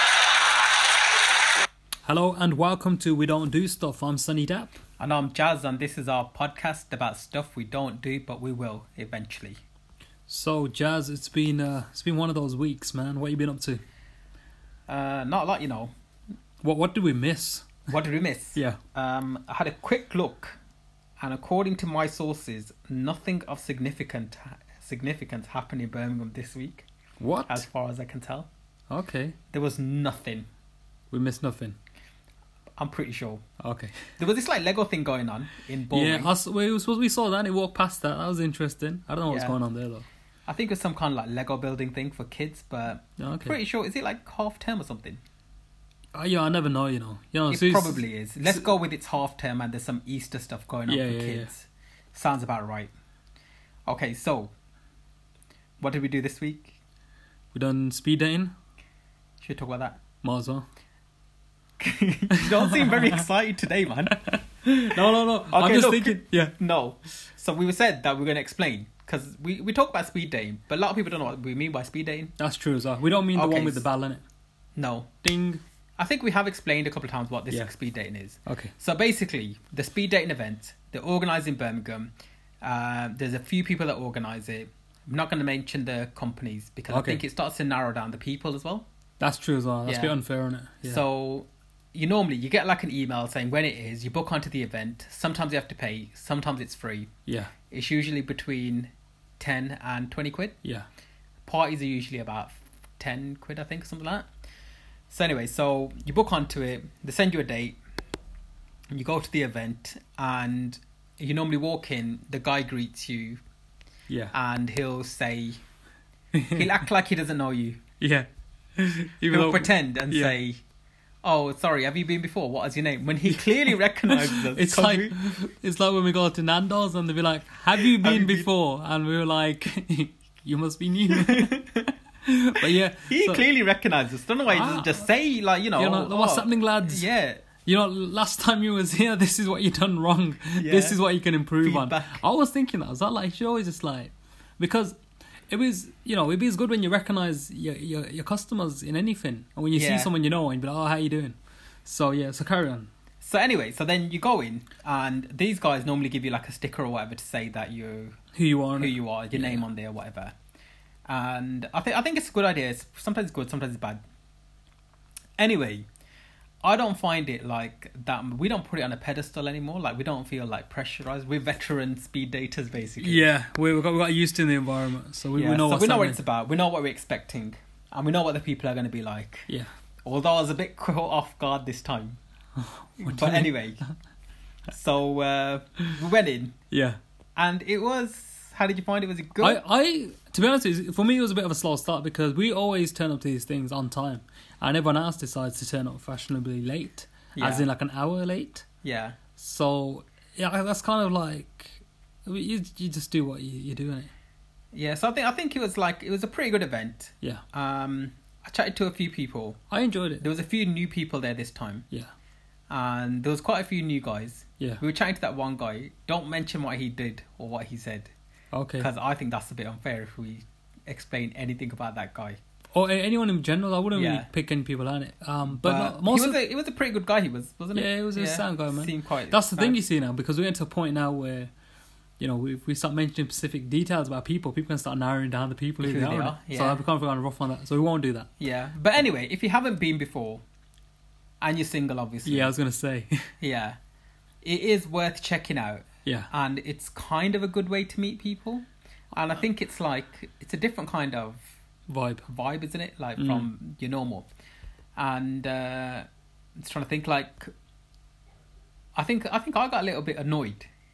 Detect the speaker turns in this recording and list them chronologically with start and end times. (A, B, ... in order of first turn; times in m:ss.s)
0:02.0-0:04.8 A
0:05.0-0:09.6 B
0:10.3-0:13.8 A
0:14.9-0:15.9 B
0:16.6-0:17.8 A
0:17.9-0:20.6 B
0:21.2-0:26.9 B
0:27.2-0:27.7 A
0:27.5-0:28.5 B
0:28.9-0:29.4 A
0:29.5-0:30.5 B
0:31.1-0:31.8 A
0:32.8-0:33.4 B
0:33.6-0:34.0 A
0:34.2-0:36.3 B
0:35.9-0:40.1 A
0:39.3-0:39.6 B
0:40.5-0:45.2 B
0:43.2-0:43.6 A
0:46.2-0:48.6 A
0:47.5-0:52.9 B
0:50.9-0:51.5 A
0:53.9-0:54.5 B
0:55.8-0:56.8 B
0:57.5-0:58.5 A
0:59.4-1:00.0 B
1:00.2-1:00.6 A
1:01.8-1:04.2 B
1:02.3-1:03.1 A
1:04.3-1:06.5 A
1:05.5-1:12.4 B
1:12.4-1:14.2 A
1:13.4-1:13.8 B
1:14.8-1:15.1 B
1:15.2-1:15.6 A
1:16.0-1:28.9 B
1:18.5-1:18.7 A
1:26.9-1:27.2 A
1:29.2-1:31.0 A
1:29.9-1:30.2 B
1:30.8-1:37.1 B
1:37.3-1:37.5 A
1:37.7-1:40.6 B
1:41.5-1:44.3 B
1:45.1-1:47.8 B
1:48.9-1:53.4 B
1:54.3-1:55.6 B
1:56.3-1:56.7 A
1:56.6-1:57.8 B
1:58.0-2:00.4 A
1:59.3-2:00.6 B
2:01.2-2:05.2 B
2:04.1-2:11.6 A
2:07.8-2:08.5 B
2:11.1-2:11.9 B
2:12.2-2:13.5 A
2:13.1-2:17.4 B
2:14.5-2:15.1 A
2:15.8-2:17.1 A
2:17.6-2:25.0 A
2:20.6-2:21.0 B
2:21.6-2:22.2 B
2:25.5-2:32.9 A
2:29.7-2:30.1 B
2:33.2-2:38.2 B
2:38.3-2:39.6 A
2:38.8-2:40.4 B
2:41.1-2:44.0 B
2:45.4-2:45.9 B
2:46.6-2:53.3 B
2:53.0-2:56.2 A
2:55.4-2:59.5 B
3:00.0-3:02.2 B
3:02.6-3:03.5 A
3:03.0-3:03.8 B
3:04.7-3:06.6 B
3:06.7-3:07.0 A
3:07.4-3:09.6 B
3:09.4-3:18.7 A
3:17.4-3:17.7 B
3:18.8-3:19.2 B
3:19.4-3:24.1 A
3:24.7-3:29.6 B
3:29.7-3:30.3 A
3:30.2-3:31.9 B
3:32.7-3:38.1 B
3:38.5-3:38.9 A
3:38.8-3:42.4 B
3:42.8-3:46.4 A
3:43.9-3:44.3 B
3:45.5-3:49.8 B
3:47.8-3:51.5 A
3:52.2-3:58.3 A
3:55.8-3:56.8 B
3:58.4-4:00.4 B
4:01.4-4:02.5 B
4:02.2-4:03.3 A
4:03.4-4:03.8 B
4:04.4-4:11.5 B
4:11.9-4:12.3 A
4:12.3-4:14.3 B
4:13.2-4:13.5 A
4:15.0-4:17.5 B
4:19.0-4:20.7 B